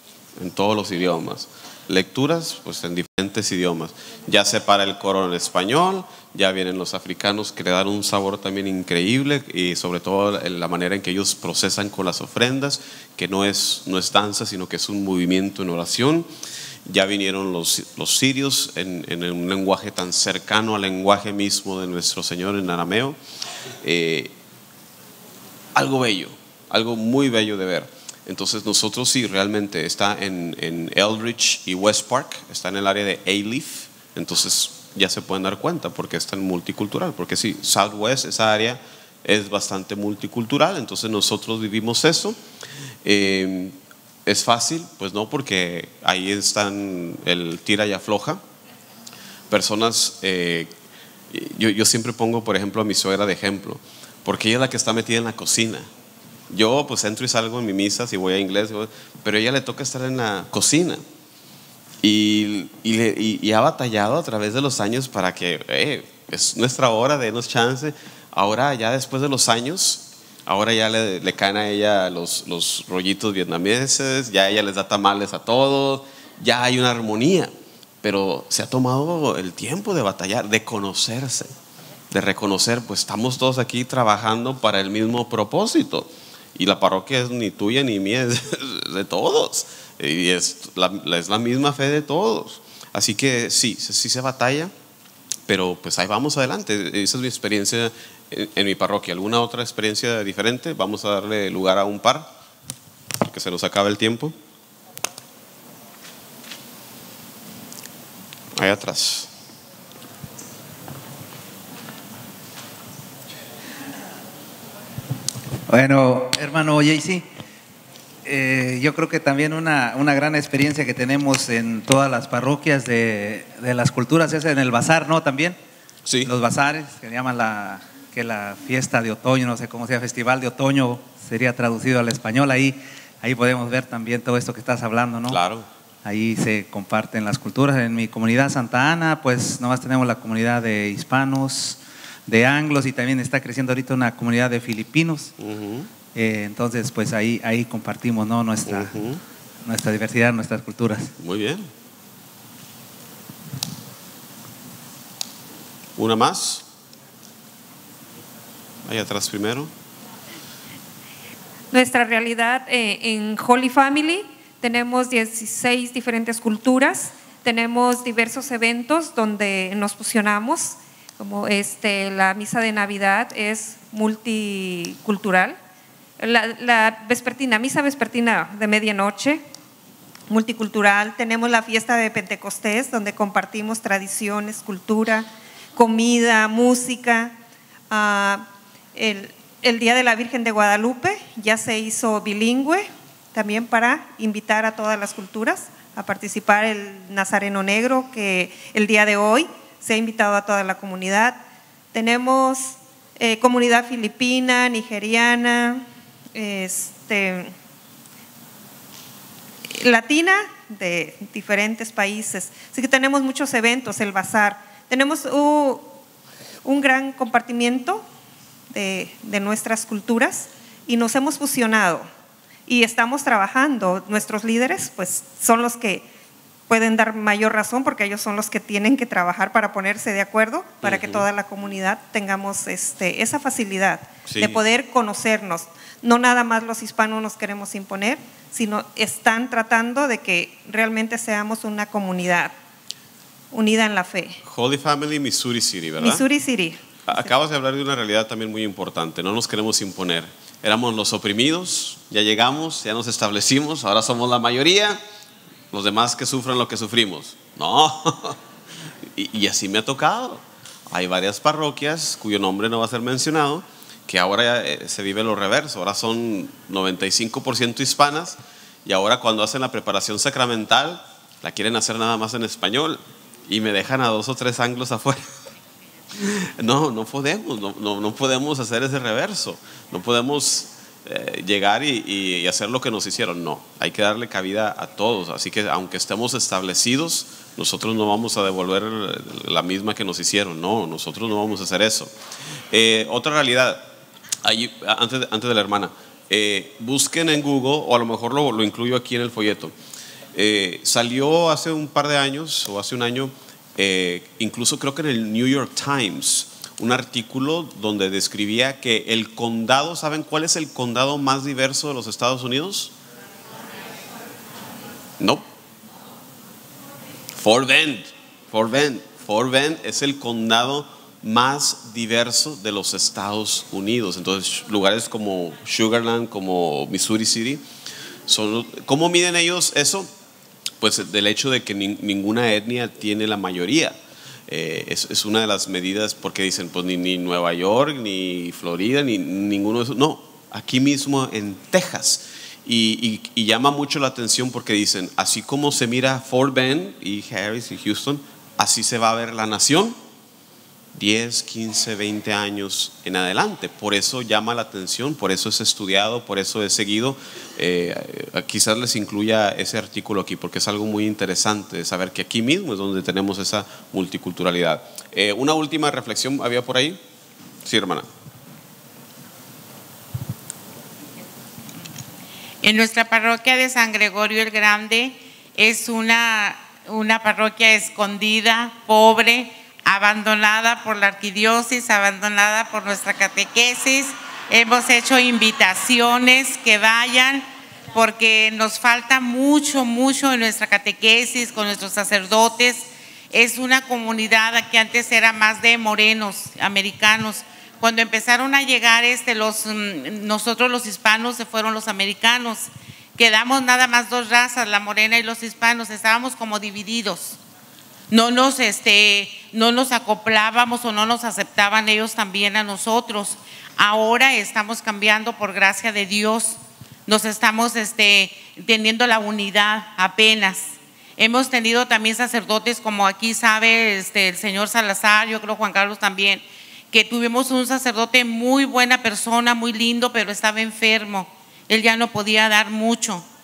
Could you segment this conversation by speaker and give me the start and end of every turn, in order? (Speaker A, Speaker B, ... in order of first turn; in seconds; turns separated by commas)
Speaker A: 0.4-16.3, Speaker A: 16.9-23.2, Speaker A: 23.8-24.3, Speaker A: 25.7-42.4, Speaker A: 43.0-48.4, Speaker A: 49.5-50.7, Speaker A: 51.3-55.9, Speaker A: 56.5-61.0, Speaker A: 62.0-81.5, Speaker A: 82.1-94.7, Speaker A: 95.5-102.3, Speaker A: 103.2-104.3, Speaker A: 108.5-109.3, Speaker B: 115.7-117.3, Speaker B: 118.2-125.6, Speaker B: 126.2-135.4, Speaker A: 135.3-135.7, Speaker B: 136.0-145.3, Speaker A: 145.4-145.9, Speaker B: 146.1-148.9, Speaker A: 148.7-149.2, Speaker B: 149.7-151.1, Speaker A: 151.2-151.7, Speaker A: 156.0-156.6, Speaker A: 158.8-159.7, Speaker C: 161.7-175.6, Speaker C: 176.2-179.4, Speaker C: 180.3-187.3, Speaker C: 187.9-201.4, Speaker C: 201.9-207.5, Speaker C: 209.7-215.9, Speaker C: 216.6-218.0, Speaker C: 218.7-222.1, Speaker C: 222.7-226.1, Speaker C: 226.7-242.5, Speaker A: 230.8-231.3, Speaker A: 234.2-234.6, Speaker C: 243.5-244.4, Speaker A: 244.4-246.2, Speaker C: 246.0-247.3, Speaker A: 247.1-255.0, Speaker A: 255.7-258.4, Speaker A: 259.1-275.2, Speaker A: 276.1-292.1, Speaker A: 292.7-293.8, Speaker A: 294.4-299.7, Speaker A: 300.3-312.9, Speaker A: 315.2-315.4, Speaker A: 317.4-327.6, Speaker A: 328.3-330.1, Speaker A: 330.8-333.9, Speaker A: 334.5-350.0, Speaker A: 350.9-367.0, Speaker A: 367.6-368.1, Speaker D: 372.6-407.4, Speaker D: 408.1-433.2